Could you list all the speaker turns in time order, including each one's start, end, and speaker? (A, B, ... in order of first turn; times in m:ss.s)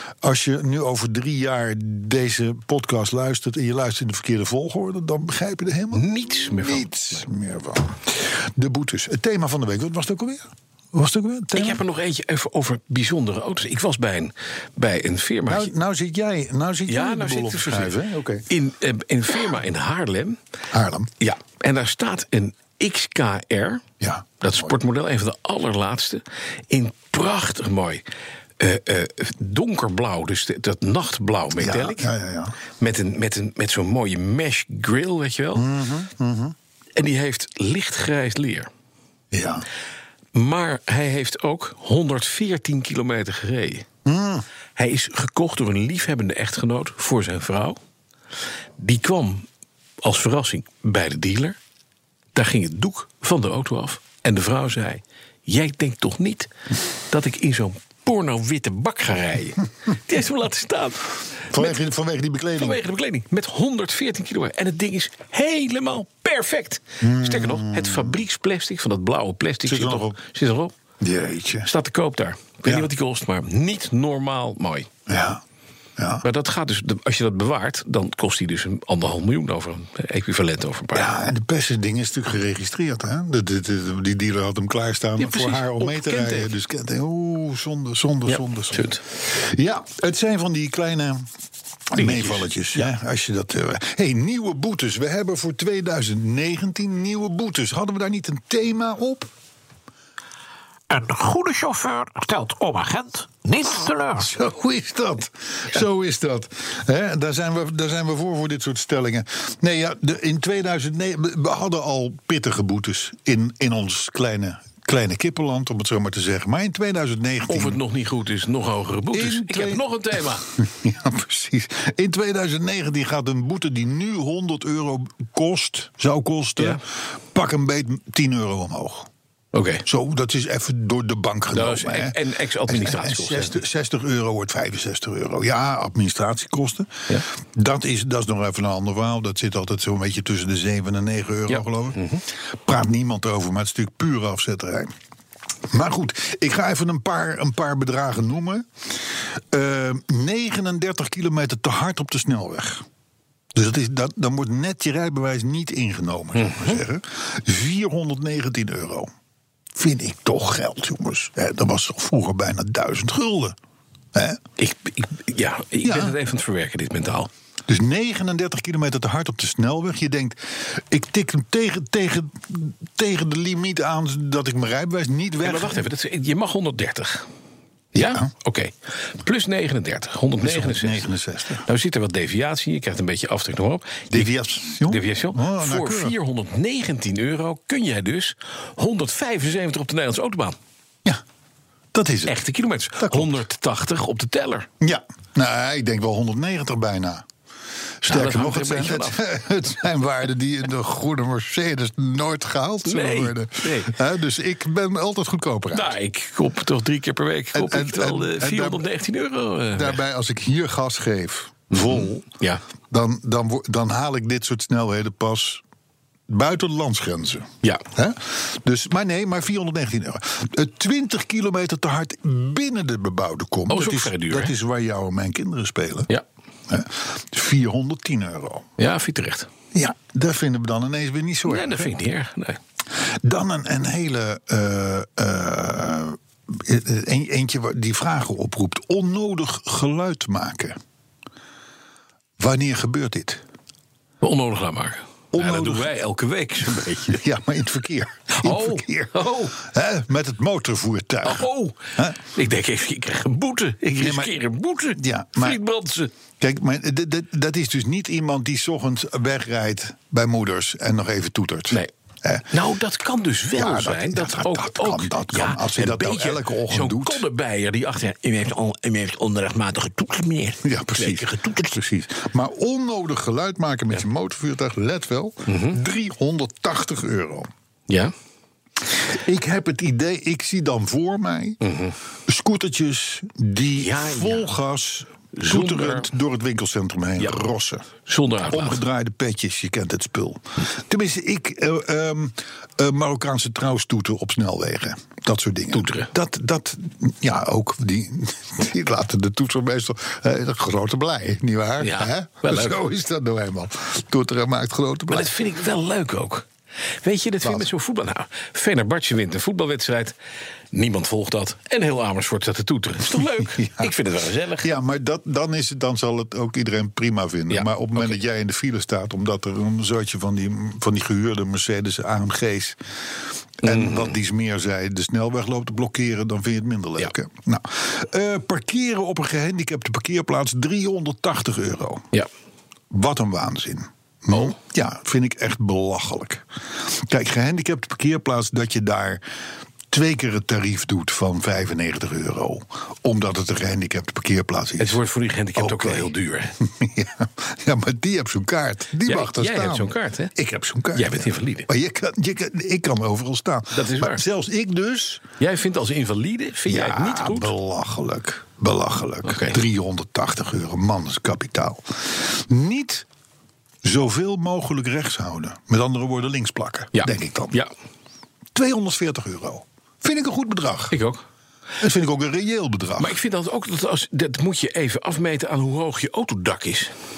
0:00.2-0:11.8 A
0:05.9-0:07.2 B
0:11.5-0:15.7 B
0:15.5-0:18.5 A
0:16.9-0:18.0 B
0:18.5-0:20.4 B
0:20.7-0:21.1 A
0:21.2-0:23.8 B
0:24.0-0:24.7 A
0:24.4-0:28.0 B
0:28.6-0:32.1 B
0:31.6-0:32.6 A
0:32.8-0:35.7 B
0:35.6-0:36.6 A
0:37.0-0:38.7 B
0:39.3-0:39.6 A
0:40.3-0:43.9 B
0:44.0-0:44.4 A
0:44.8-0:47.8 B
0:48.8-0:49.5 B
0:50.0-0:51.6 B
0:52.4-0:56.5 B
0:57.1-1:01.8 B
1:01.5-1:02.8 A
1:02.6-1:10.7 B
1:07.0-1:08.2 A
1:09.6-1:10.2 A
1:11.0-1:11.7 A
1:11.6-1:14.9 B
1:15.1-1:15.4 A
1:16.0-1:16.2 A
1:16.2-1:21.1 B
1:20.9-1:31.3 A
1:25.2-1:26.5 B
1:28.3-1:29.0 B
1:31.9-1:39.3 A
1:31.9-1:32.9 B
1:40.9-1:44.3 C
1:44.2-1:57.8 A
1:57.5-2:00.4 B
1:59.1-2:09.1 A
2:09.5-2:09.8 B
2:09.8-2:24.9 A
2:11.5-2:13.6 B
2:21.5-2:22.2 B
2:25.7-2:32.8 A
2:33.5-2:39.1 A
2:36.4-2:36.8 B
2:39.8-2:43.6 A
2:44.1-2:44.4 A
2:44.6-2:47.3 B
2:45.8-2:46.2 A
2:47.7-2:55.8 A
2:55.4-2:57.3 B
2:57.9-3:01.1 B
2:58.0-2:58.3 A
3:00.4-3:01.7 A
3:01.6-3:10.6 B
3:04.1-3:06.2 A
3:11.9-3:12.4 A
3:12.3-3:14.7 B
3:13.0-3:13.4 A
3:14.8-3:17.2 A
3:18.0-3:26.0 A
3:18.1-3:19.2 B
3:22.8-3:24.0 B
3:25.7-3:30.0 B
3:27.5-3:28.9 A
3:29.7-3:32.2 A
3:31.7-3:32.6 B
3:32.9-3:35.6 A
3:36.3-3:46.1 A
3:43.7-3:44.5 B
3:46.7-3:48.7 A
3:48.8-3:49.5 B
3:49.7-3:51.9 A
3:51.5-3:52.6 B
3:53.0-4:00.8 A
4:02.4-4:03.4 A
4:04.2-4:07.2 B
4:05.3-4:05.9 A
4:07.1-4:12.2 A
4:08.3-4:09.6 B
4:11.2-4:16.1 B
4:14.0-4:14.4 A
4:15.0-4:15.6 A
4:16.4-4:22.5 A
4:22.5-4:31.8 B
4:23.5-4:27.2 A
4:30.6-4:37.5 A
4:35.5-4:35.8 B
4:37.9-4:38.1 B
4:38.8-4:41.6 A
4:41.6-4:42.0 B
4:42.3-4:47.9 A
4:43.8-4:44.5 B
4:45.3-4:46.1 B
4:48.0-4:48.8 B
4:48.5-5:05.3 A
4:55.7-4:56.1 B
5:01.8-5:02.8 B
5:05.1-5:06.5 B
5:07.0-5:10.2 B
5:07.4-5:07.7 A
5:10.7-5:14.7 B
5:13.2-5:13.9 A
5:14.6-5:22.8 A
5:17.5-5:18.2 B
5:23.6-5:32.1 A
5:23.6-5:24.2 B
5:32.9-5:39.2 A
5:39.9-5:45.0 A
5:44.8-5:46.6 B
5:45.6-5:55.2 A
5:49.1-5:50.3 B
5:51.0-5:51.7 B
5:53.7-5:54.2 B
5:55.4-5:57.5 B
5:56.7-6:03.1 A
5:59.2-5:59.6 B
6:03.8-6:07.6 A
6:06.9-6:07.7 B
6:08.6-6:11.0 A
6:10.9-6:11.2 B
6:11.8-6:13.2 A
6:13.0-6:16.9 B